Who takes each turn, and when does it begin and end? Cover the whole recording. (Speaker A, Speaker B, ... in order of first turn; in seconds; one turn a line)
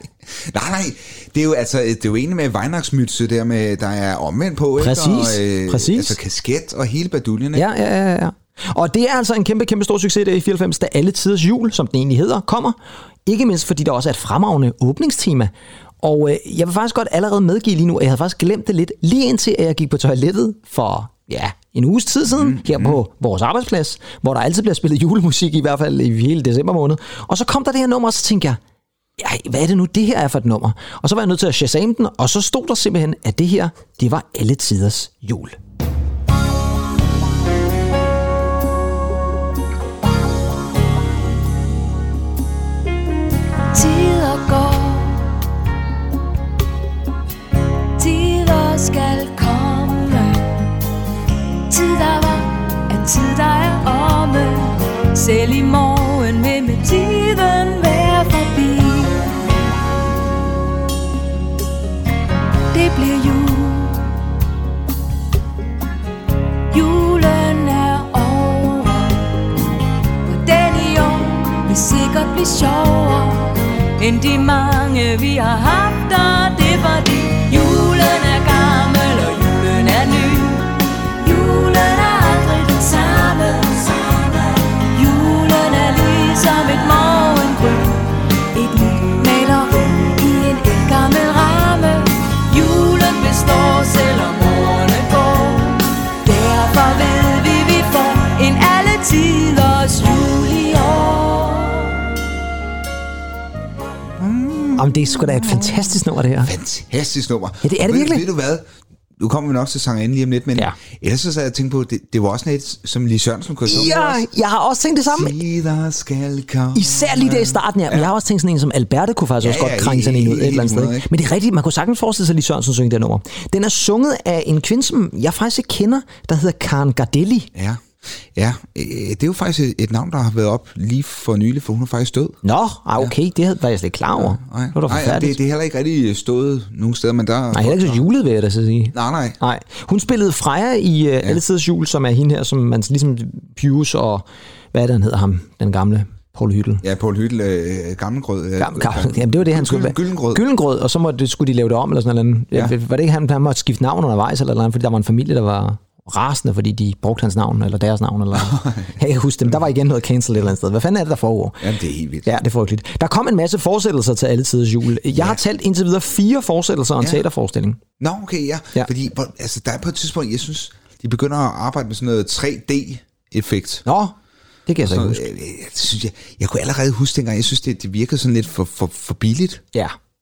Speaker A: 0.4-7.7
Speaker B: 4.8-6.2
Speaker B: 7.5-28.6
Speaker A: 22.3-23.0
Speaker B: 29.2-35.5
Speaker C: 43.7-45.3
Speaker C: 48.0-50.4
Speaker C: 51.7-59.2
Speaker C: 62.7-64.0
Speaker C: 66.7-69.2
Speaker C: 70.2-102.0
Speaker A: 104.2-108.7
Speaker B: 104.8-106.5
Speaker B: 107.6-108.2
Speaker A: 109.2-114.3
Speaker B: 113.7-115.4
Speaker A: 115.1-118.1
Speaker B: 116.7-127.5
Speaker A: 119.4-121.1
Speaker A: 127.5-132.4
Speaker B: 132.4-135.4
Speaker A: 134.2-138.1
Speaker B: 137.5-146.8
Speaker A: 138.9-139.4
Speaker A: 146.8-150.4
Speaker B: 148.6-161.6
Speaker A: 158.3-158.9
Speaker A: 161.6-162.3
Speaker B: 162.2-167.8
Speaker A: 165.1-165.4
Speaker A: 167.0-167.2
Speaker A: 168.0-173.8
Speaker B: 173.9-174.1
Speaker B: 174.7-175.2
Speaker A: 174.8-179.6